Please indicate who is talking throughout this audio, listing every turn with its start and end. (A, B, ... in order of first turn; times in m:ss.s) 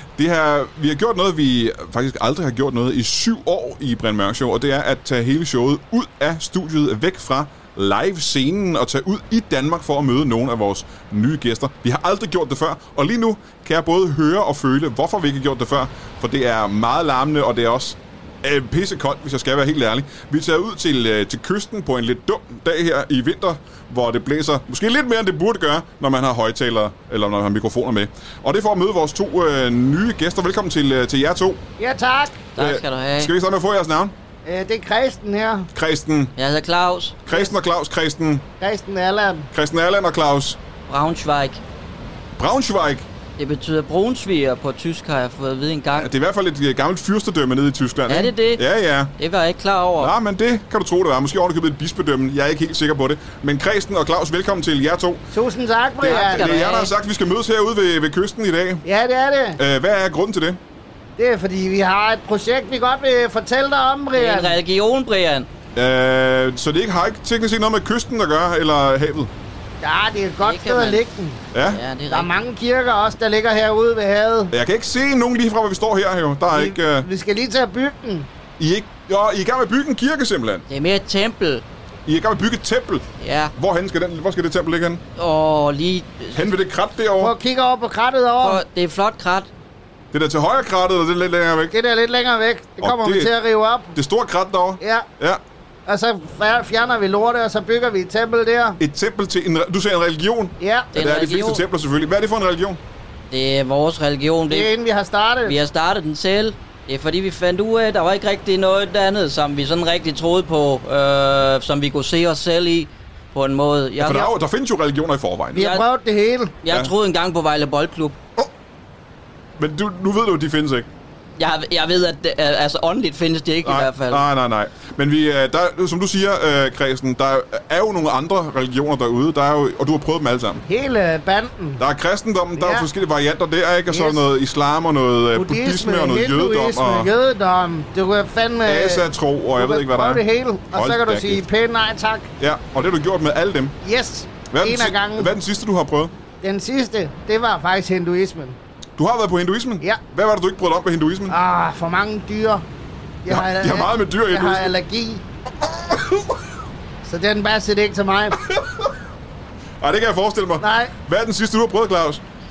0:00.2-0:31.6 A
0:31.8-0:32.4 B
0:32.6-0:33.3 C
0:32.6-0:34.1 A
0:34.4-0:35.7 B
0:35.7-0:36.3 A
0:36.4-0:37.3 C
0:37.3-0:38.5 A
0:38.6-0:39.5 B
0:39.5-0:40.6 A
0:40.9-0:41.6 C
0:42.4-0:43.1 A
0:43.4-0:46.1 C
0:45.9-0:49.1 A
0:48.1-0:48.6 C
0:49.2-0:50.1 C
0:50.0-0:55.2 A
0:55.3-0:56.6 B
0:56.0-0:56.9 C
0:56.0-0:58.8 A
0:58.8-0:59.6 B
0:59.6-1:00.6 A
1:01.2-1:04.6 B
1:04.1-1:05.5 C
1:05.8-1:09.3 A
1:09.8-1:11.4 B
1:10.4-1:11.0 C
1:11.5-1:11.8 A
1:11.6-1:12.3 C
1:12.1-1:14.5 B
1:14.5-1:17.1 A
1:16.5-1:18.3 B
1:18.6-1:20.6 A
1:20.7-1:21.6 C
1:22.0-1:25.0 A
1:23.2-1:23.5 C
1:25.2-1:26.5 C
1:26.3-1:27.3 A
1:27.2-1:28.6 B
1:28.4-1:29.5 C
1:30.1-1:31.7 A
1:31.7-1:34.0 B
1:32.8-1:33.3 A
1:33.9-1:35.4 A
1:34.8-1:35.1 B
1:35.9-1:38.8 B
1:38.8-1:42.8 A
1:40.6-1:40.9 B
1:40.9-1:41.6 C
1:43.3-1:44.7 C
1:44.5-1:45.6 B
1:45.4-1:54.3 C
1:54.0-1:55.7 A
1:55.5-1:56.5 B
1:55.6-1:55.8 C
1:56.6-1:58.2 C
1:59.6-2:00.9 A
2:01.4-2:04.2 C
2:03.6-2:10.6 A
2:10.6-2:11.8 B
2:11.8-2:17.1 A
2:12.6-2:12.9 B
2:13.9-2:14.2 B
2:15.3-2:22.3 B
2:18.6-2:21.4 A
2:22.4-2:23.8 A
2:23.8-2:25.3 B
2:24.5-2:26.1 A
2:26.4-2:28.6 B
2:29.0-2:31.3 A
2:31.3-2:32.6 B
2:33.2-2:35.2 B
2:33.3-2:34.7 A
2:35.6-2:36.4 A
2:37.0-2:38.4 B
2:38.4-2:38.9 A
2:39.8-2:42.2 A
2:40.6-2:40.9 B